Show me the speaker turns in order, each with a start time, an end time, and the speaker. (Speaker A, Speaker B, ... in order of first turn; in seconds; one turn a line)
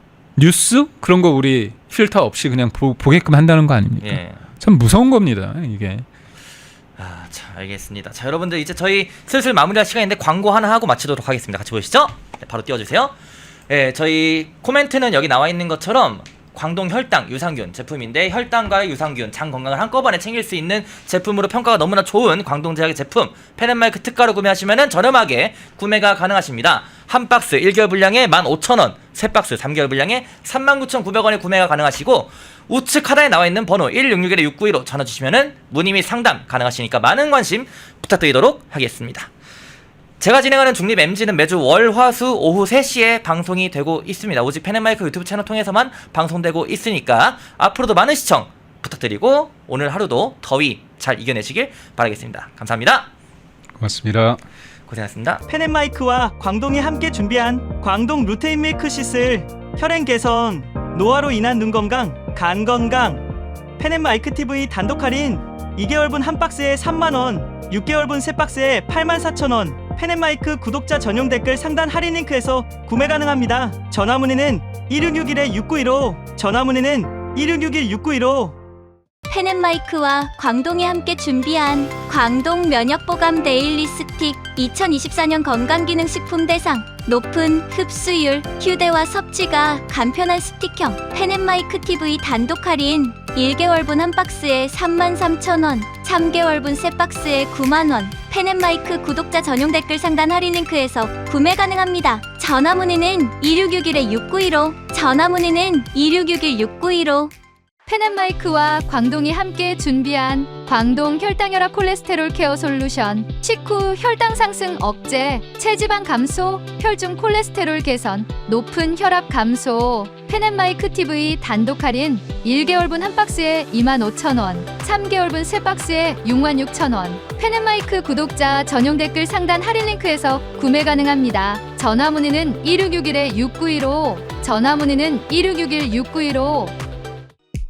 Speaker A: 0.4-6.0
Speaker B: 4.0-4.4
Speaker B: 7.0-13.1
Speaker B: 13.7-39.3
Speaker B: 40.2-53.1
Speaker A: 53.8-54.4
Speaker B: 54.9-55.4
Speaker C: 55.5-63.2
Speaker C: 63.8-78.6
Speaker D: 79.3-107.3
Speaker E: 107.9-136.8